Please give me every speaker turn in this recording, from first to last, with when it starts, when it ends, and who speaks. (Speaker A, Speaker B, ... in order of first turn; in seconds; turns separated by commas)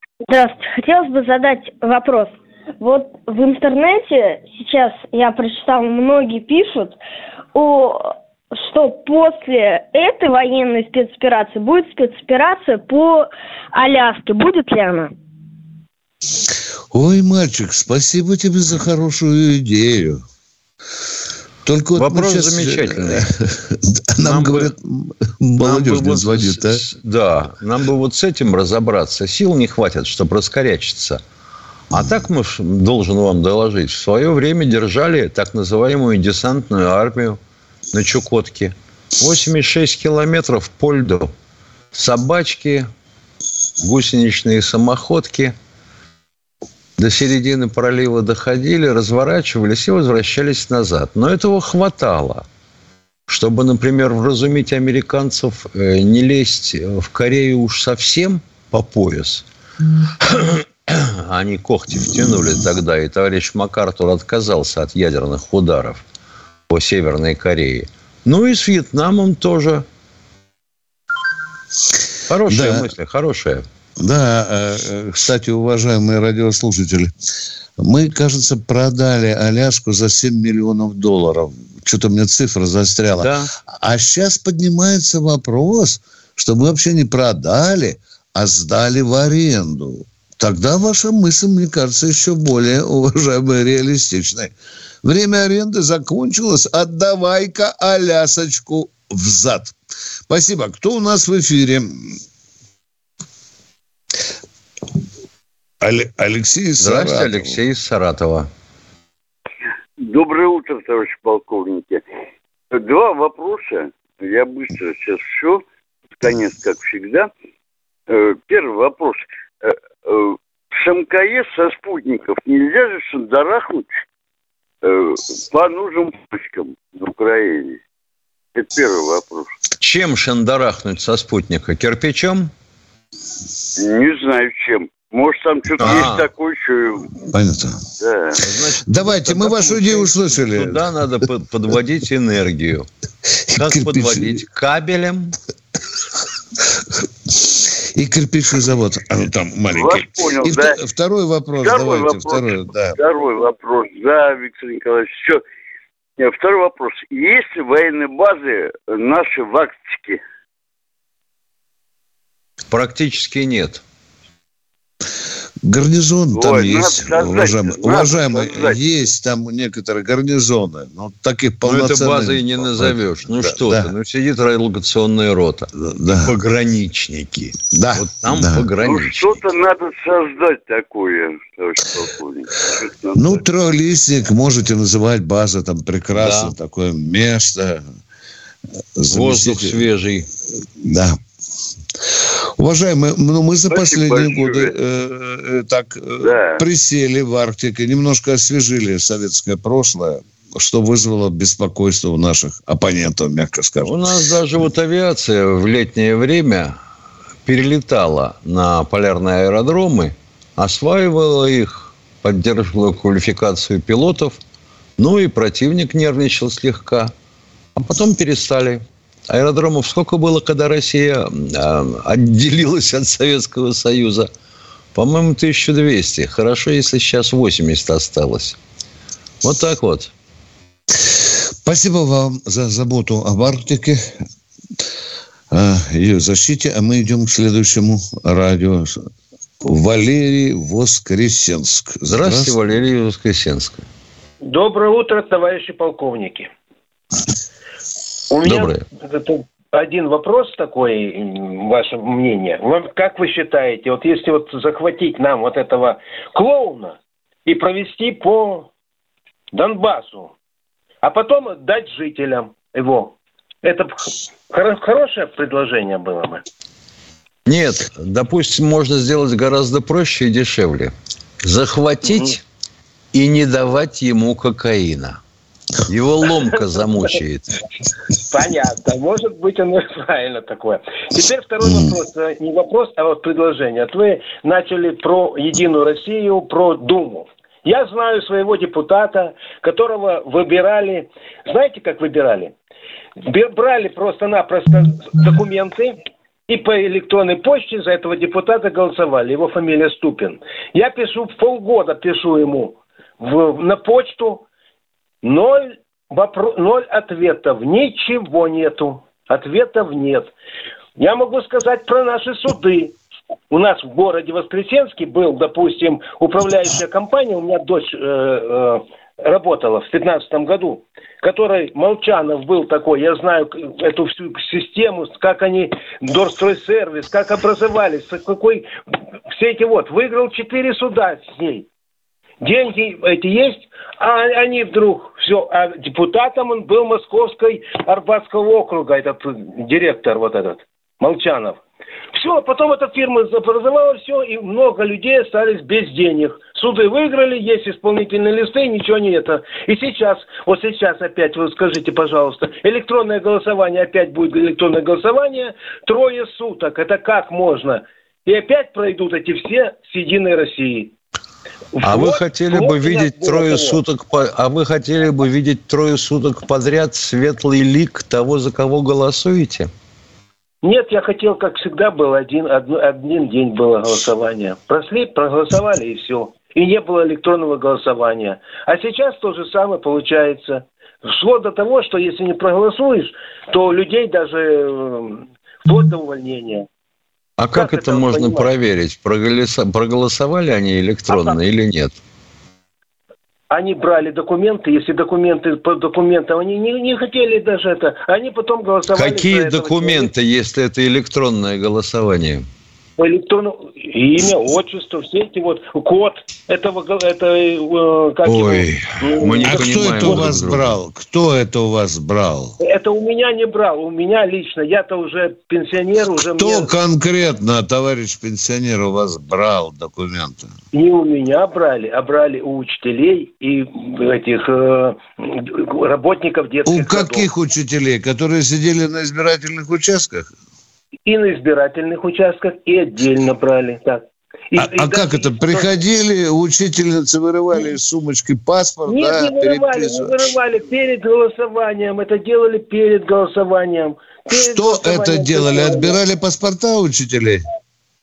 Speaker A: 0.3-7.0, Speaker A: 7.5-8.0, Speaker A: 8.5-15.1, Speaker B: 16.9-20.2, Speaker B: 21.6-26.8, Speaker C: 22.0-23.3, Speaker C: 24.2-24.7, Speaker C: 25.6-31.2, Speaker C: 31.9-37.4, Speaker C: 37.9-41.3, Speaker C: 41.9-42.9, Speaker C: 43.8-45.5, Speaker C: 47.0-52.5, Speaker C: 53.3-59.4, Speaker C: 60.2-66.0, Speaker C: 66.7-69.8, Speaker C: 72.3-73.6, Speaker B: 72.5-72.9, Speaker B: 74.0-77.1, Speaker B: 77.8-99.8, Speaker C: 83.2-83.5, Speaker B: 100.3-101.9, Speaker B: 105.8-107.6, Speaker C: 106.8-108.5, Speaker D: 110.0-112.0, Speaker D: 112.7-115.6, Speaker D: 116.2-117.3, Speaker D: 118.1-123.9, Speaker D: 124.8-127.8, Speaker D: 128.6-129.5, Speaker C: 129.8-132.5, Speaker D: 133.8-137.1, Speaker C: 135.8-136.3, Speaker B: 135.8-136.1, Speaker B: 137.3-137.8, Speaker D: 138.0-138.4, Speaker C: 138.4-142.9, Speaker B: 138.9-140.9, Speaker B: 143.5-144.4, Speaker C: 143.6-145.4, Speaker B: 147.3-153.0, Speaker D: 149.7-150.8, Speaker D: 151.6-155.4, Speaker D: 156.2-160.2, Speaker C: 162.7-163.8, Speaker B: 165.6-173.9, Speaker D: 166.3-168.8, Speaker C: 171.7-175.7, Speaker B: 175.7-176.3, Speaker C: 176.2-179.4, Speaker B: 177.7-178.7, Speaker D: 178.8-183.4, Speaker B: 183.2-187.8, Speaker C: 186.2-186.5, Speaker B: 189.0-189.8, Speaker C: 189.1-190.3, Speaker B: 190.8-191.2, Speaker B: 192.6-204.0, Speaker D: 193.7-194.7, Speaker D: 196.2-196.6, Speaker C: 203.8-206.8, Speaker C: 207.5-214.4, Speaker C: 215.0-217.1, Speaker C: 217.8-224.3, Speaker C: 224.9-228.6, Speaker C: 229.4-230.1, Speaker B: 231.1-234.1, Speaker B: 235.5-239.0, Speaker B: 239.6-242.6, Speaker C: 242.1-243.8, Speaker E: 244.4-246.5, Speaker E: 248.3-258.7, Speaker C: 248.4-248.8, Speaker E: 259.5-260.3, Speaker E: 261.0-266.4, Speaker C: 267.5-272.4, Speaker E: 272.1-272.4, Speaker C: 273.1-275.2, Speaker C: 275.9-277.5, Speaker E: 278.3-292.5, Speaker B: 281.6-282.0, Speaker E: 293.2-304.5, Speaker E: 305.2-310.3, Speaker E: 311.0-313.0, Speaker E: 313.5-328.7, Speaker E: 329.3-331.7, Speaker E: 332.4-341.6, Speaker E: 342.1-360.9, Speaker E: 361.8-363.8, Speaker C: 361.8-369.7, Speaker E: 370.6-386.7, Speaker C: 387.4-392.0, Speaker E: 387.5-388.5, Speaker E: 391.1-391.4, Speaker E: 393.5-400.1, Speaker C: 398.9-402.4, Speaker E: 403.0-410.3, Speaker C: 408.2-410.8, Speaker B: 409.4-412.6, Speaker E: 412.6-416.7, Speaker B: 416.1-420.5, Speaker E: 420.7-427.3, Speaker B: 426.7-430.3, Speaker E: 431.1-435.7, Speaker B: 434.6-440.4, Speaker E: 438.9-446.0, Speaker B: 444.3-447.4